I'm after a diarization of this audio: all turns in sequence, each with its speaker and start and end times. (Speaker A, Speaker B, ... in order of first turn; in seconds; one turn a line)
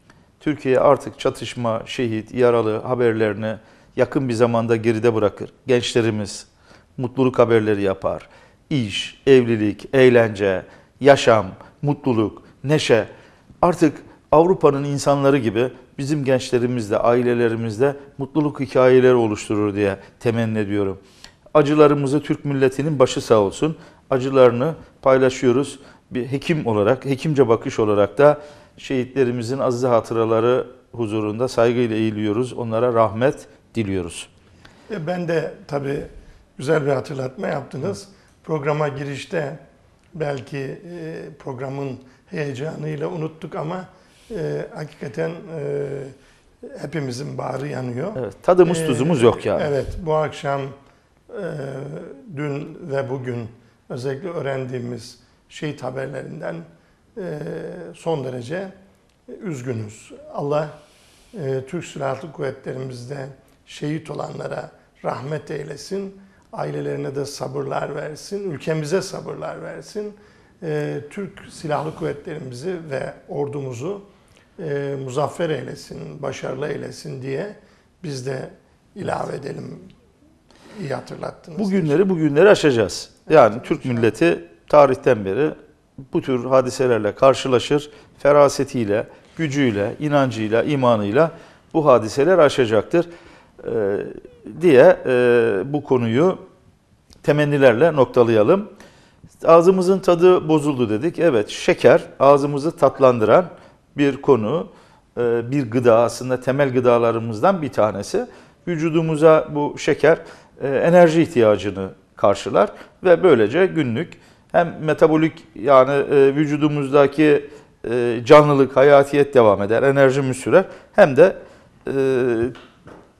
Speaker A: 0.4-6.5
Speaker A: 7.0-13.1
Speaker A: 13.6-21.0
Speaker A: 21.5-34.3
Speaker B: 34.9-39.6
Speaker B: 40.1-46.1
Speaker B: 46.7-50.7
Speaker A: 48.2-49.7
Speaker B: 51.3-58.7
Speaker B: 59.3-60.7
Speaker B: 61.3-74.0
Speaker B: 74.6-79.9
Speaker B: 80.7-82.0
Speaker A: 81.6-85.5
Speaker B: 83.3-84.0
Speaker A: 86.1-93.1
Speaker A: 93.6-96.4
Speaker A: 97.2-98.7
Speaker A: 99.4-122.5